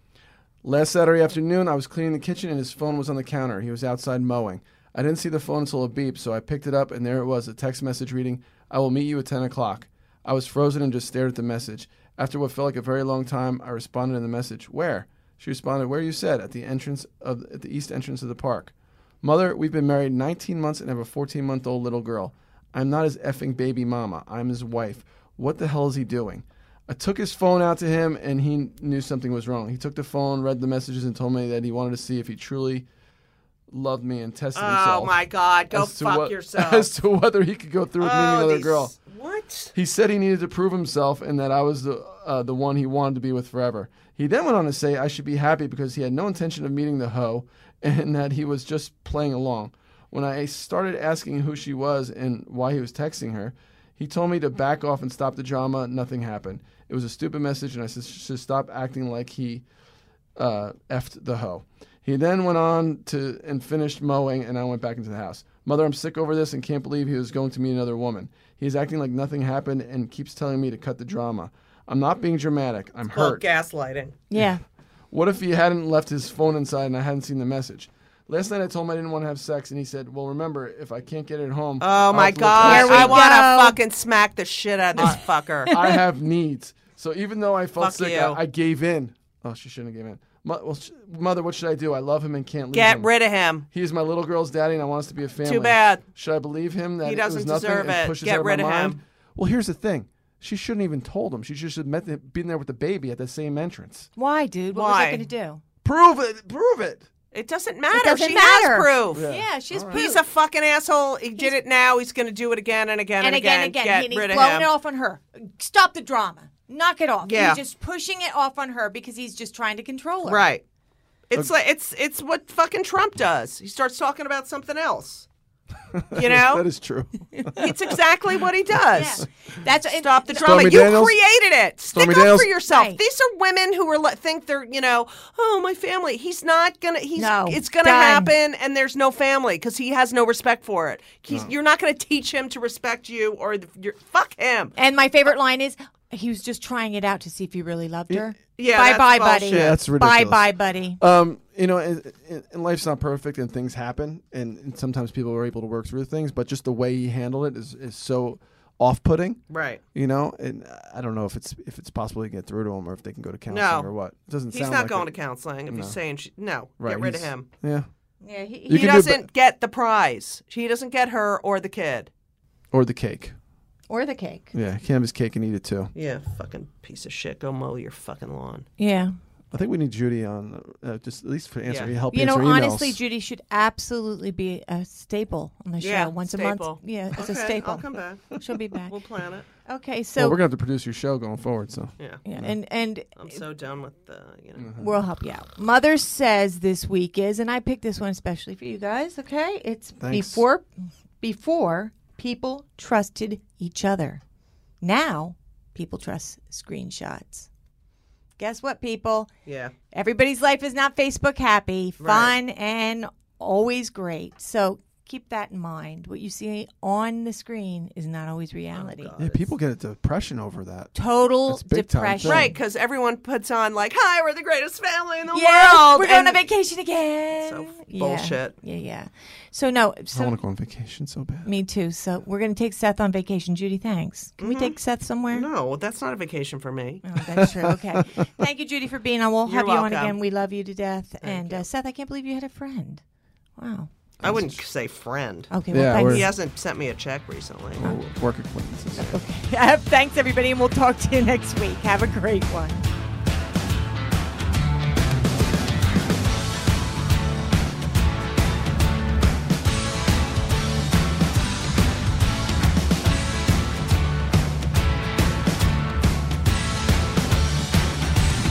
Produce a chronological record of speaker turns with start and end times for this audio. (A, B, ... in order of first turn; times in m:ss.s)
0:00.6-0:32.9 A
0:33.7-0:38.9 A
0:34.6-0:36.9 B
0:38.0-0:39.7 B
0:39.8-0:59.6 A
1:00.4-1:13.4 A
1:13.2-1:14.2 B
1:14.3-1:14.6 C
1:15.1-1:23.2 A
1:21.8-1:25.7 B
1:22.6-1:23.8 C
1:25.0-1:26.0 C
1:25.0-1:33.1 A
1:27.8-1:28.4 B
1:32.7-1:33.7 B
1:33.7-1:44.1 A
1:35.4-1:36.0 B
1:37.0-1:39.0 B
1:44.2-1:45.6 C
1:44.7-1:45.3 B
1:45.8-1:47.1 A
1:47.3-1:49.3 B
1:47.9-1:50.2 C
1:49.1-1:50.1 A
1:49.9-1:54.7 B
1:53.2-2:00.5 C
1:57.2-1:57.6 B
2:00.2-2:00.6 B
2:01.3-2:05.3 B
2:05.9-2:07.8 A
2:06.1-2:06.7 B
2:07.3-2:07.6 C
2:07.6-2:09.2 B
2:08.9-2:10.8 C
2:09.9-2:24.8 B
2:10.4-2:11.2 A
2:11.9-2:12.5 A
2:12.7-2:13.0 C
2:17.2-2:18.3 C
2:24.8-2:31.0 C
2:28.6-2:29.8 B
2:29.5-2:39.4 A
2:39.5-2:39.8 B
2:39.9-2:45.1 A
2:43.5-2:43.9 B
2:44.5-2:47.5 B
2:45.7-2:46.0 A
2:46.8-2:47.9 A
2:48.2-2:49.0 C
2:48.7-2:49.3 A
2:48.7-2:52.1 B
2:52.7-2:53.4 A
2:53.9-2:54.5 C
2:54.5-2:55.9 A
2:56.0-2:58.7 B
2:58.8-2:59.2 C
2:59.5-3:03.0 A
3:01.7-3:01.9 B
3:02.1-3:08.9 C
3:05.8-3:09.5 B
3:09.6-3:10.4 C
3:10.2-3:12.6 A
3:12.2-3:13.4 C
3:13.2-3:14.7 B
3:14.6-3:15.0 A
3:14.8-3:24.2 C
3:20.0-3:20.4 A
3:24.8-3:27.5 C
3:28.4-3:29.3 C
3:29.5-3:29.7 B
3:29.9-3:39.1 C
3:32.0-3:32.4 B
3:38.7-3:39.5 B
3:39.2-3:41.0 A
3:41.0-3:42.6 C
3:41.5-3:42.6 A
3:42.2-3:46.4 B
3:45.3-3:50.4 C
3:47.4-3:48.6 B
3:50.1-3:51.5 A
3:51.4-3:55.5 C
3:54.4-3:54.8 B
3:55.3-3:57.0 B
3:57.0-4:03.0 C
3:57.3-3:58.3 A
3:59.5-4:00.2 B
4:01.2-4:01.7 B
4:03.6-4:03.9 C
4:04.2-4:04.6 A
4:04.2-4:08.0 B
4:05.5-4:06.3 C
4:05.7-4:06.3 A
4:07.8-4:09.2 A
4:09.0-4:12.8 C